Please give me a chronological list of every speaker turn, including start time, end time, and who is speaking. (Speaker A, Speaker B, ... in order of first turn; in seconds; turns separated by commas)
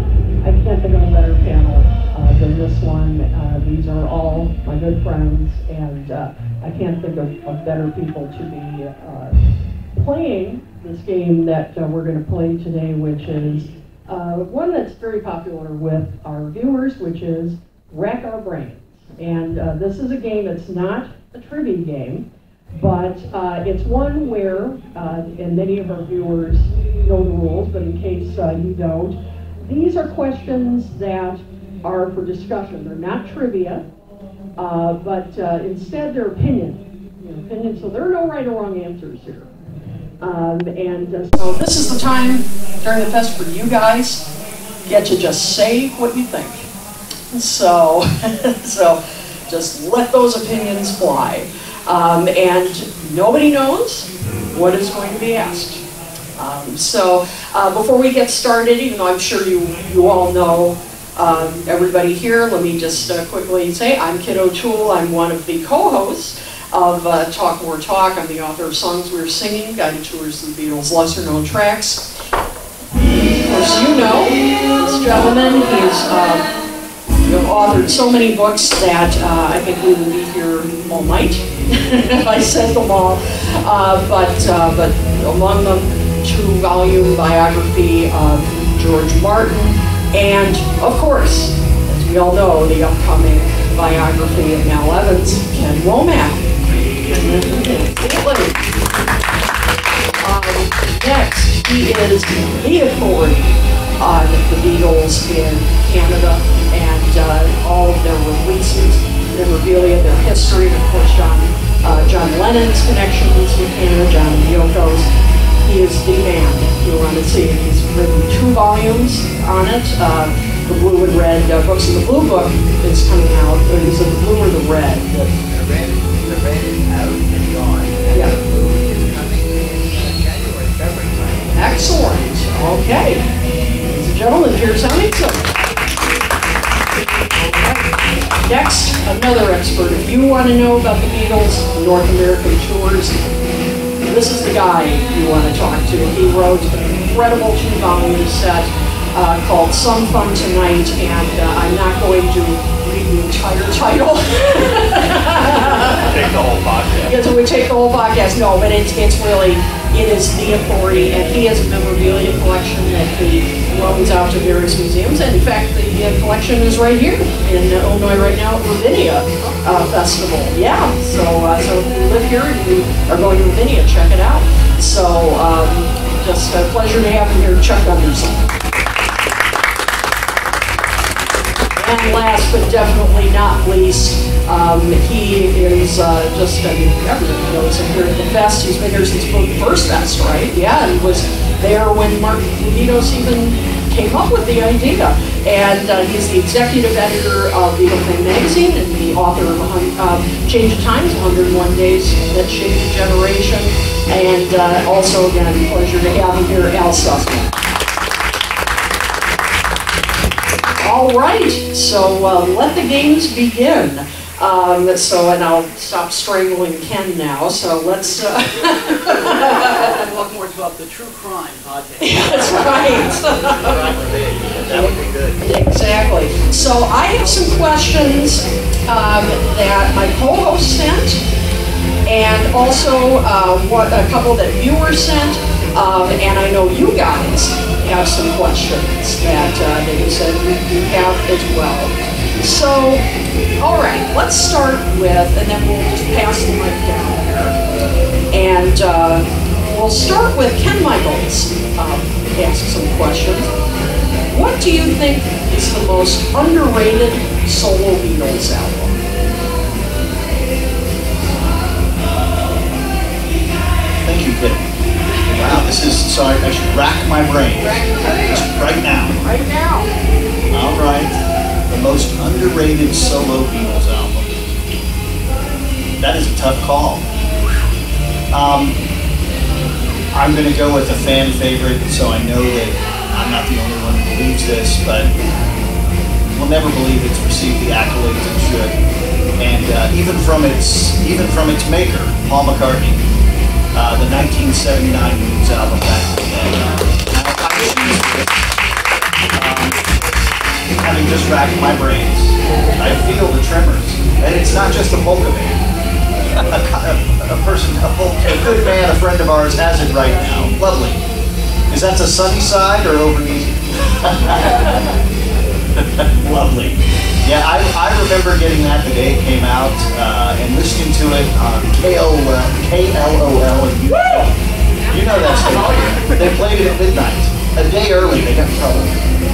Speaker A: 0.4-9.4, Speaker A: 9.9-33.9, Speaker A: 34.5-39.5, Speaker A: 40.2-44.2, Speaker A: 44.9-46.7, Speaker A: 47.3-55.8, Speaker A: 56.4-72.2, Speaker A: 73.1-76.5, Speaker A: 77.2-98.8, Speaker A: 100.2-115.1, Speaker A: 115.6-125.0, Speaker B: 125.1-131.7, Speaker A: 131.5-133.3, Speaker A: 133.8-135.6, Speaker A: 137.5-137.8, Speaker A: 138.4-143.2, Speaker A: 144.0-156.3, Speaker C: 156.1-157.1, Speaker A: 157.0-178.5, Speaker A: 181.7-207.6, Speaker A: 210.8-220.1, Speaker D: 219.9-222.4, Speaker A: 222.0-223.8, Speaker C: 223.3-225.4, Speaker A: 224.6-231.2, Speaker A: 232.0-243.0, Speaker A: 243.6-247.6, Speaker A: 248.3-253.5, Speaker A: 254.3-258.9, Speaker C: 264.0-264.7, Speaker C: 265.3-269.2, Speaker A: 267.6-268.5, Speaker A: 269.2-269.9, Speaker C: 270.5-271.2, Speaker C: 271.7-274.5, Speaker C: 276.0-277.1, Speaker C: 278.3-278.8, Speaker C: 280.1-285.1, Speaker C: 286.3-288.7, Speaker C: 289.4-293.1, Speaker C: 293.7-298.4, Speaker C: 299.3-299.8, Speaker C: 300.8-305.6, Speaker C: 306.4-311.0, Speaker C: 311.7-314.8, Speaker C: 315.8-324.3, Speaker A: 324.0-324.2, Speaker C: 324.9-328.9, Speaker A: 324.9-326.0